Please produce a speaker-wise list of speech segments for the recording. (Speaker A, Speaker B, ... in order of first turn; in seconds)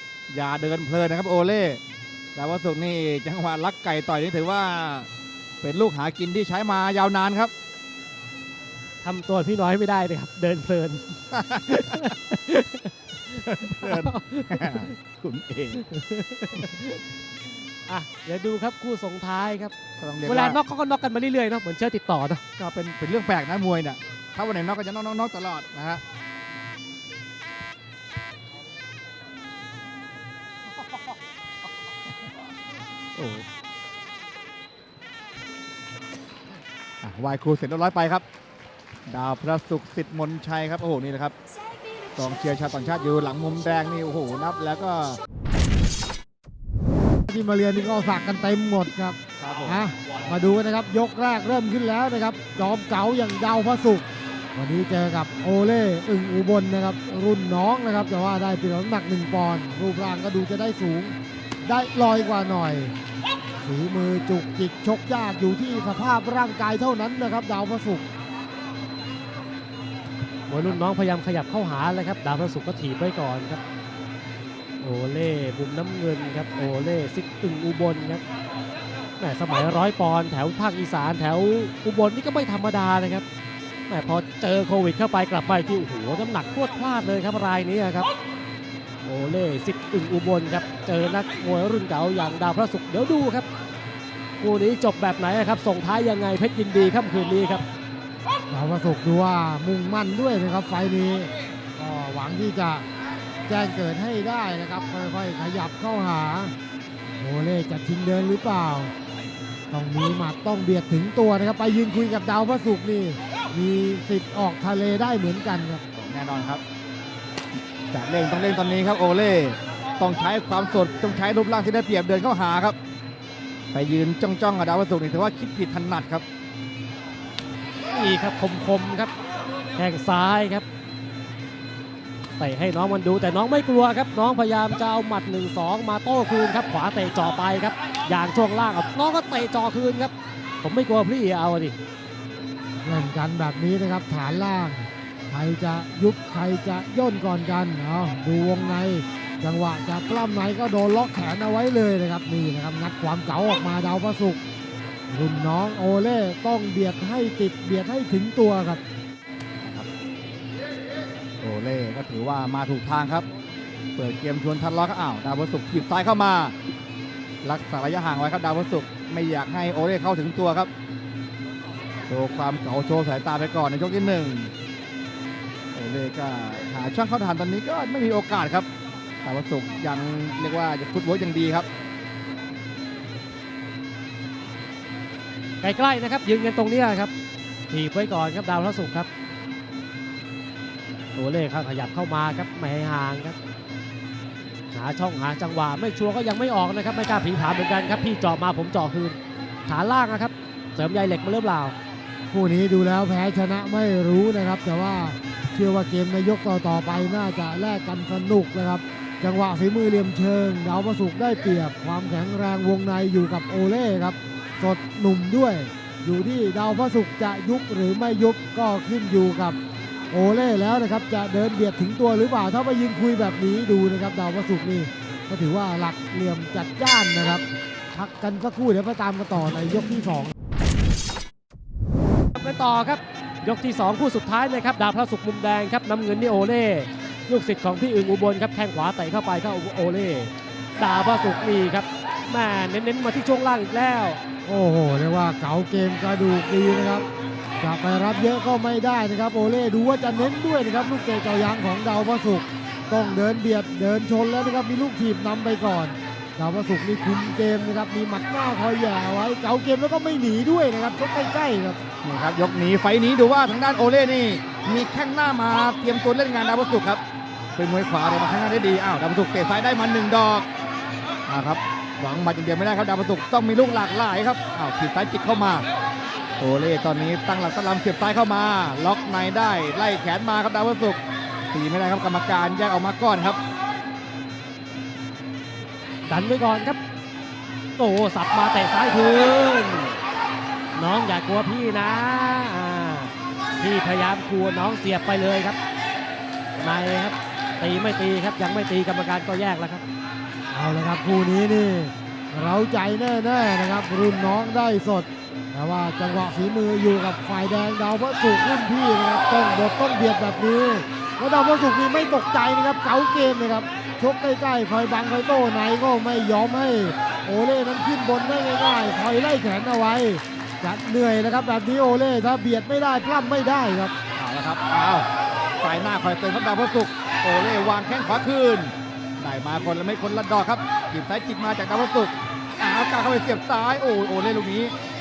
Speaker A: 0.3-1.8, 2.3-5.1, 5.6-7.5, 11.3-12.1, 13.4-15.8, 20.0-20.6, 22.6-26.0, 33.1-33.4, 37.0-38.2, 39.1-41.3, 42.1-45.2, 49.4-49.8, 115.9-116.6, 117.9-122.8, 123.7-126.2, 159.6-159.9, 161.4-163.2, 163.9-166.5, 167.4-170.7, 172.1-174.5, 175.7-178.7, 179.2-181.7, 262.0-267.0, 267.6-270.5, 271.3-275.6, 276.4-281.0, 281.5-283.4, 324.1-325.1, 325.6-334.7
Speaker B: 9.0-14.9, 15.8-17.0, 17.9-22.4, 70.5-73.6, 74.8-78.2, 79.2-83.2, 83.9-88.1, 89.0-93.5, 94.4-97.6, 127.9-129.1, 129.8-130.6, 132.4-141.8, 185.6-187.1, 187.7-189.1, 191.2-193.3, 194.7-199.2, 199.7-201.7, 232.3-244.2, 286.1-286.8, 287.8-290.0, 290.8-295.6, 296.6-299.8
Speaker C: 47.3-61.1, 61.6-62.9, 63.6-68.0, 98.5-102.8, 103.5-106.5, 107.2-108.9, 109.7-115.8, 142.8-154.4, 155.1-158.8, 202.3-219.6, 220.1-230.3, 244.4-247.0, 247.6-261.8, 300.5-323.9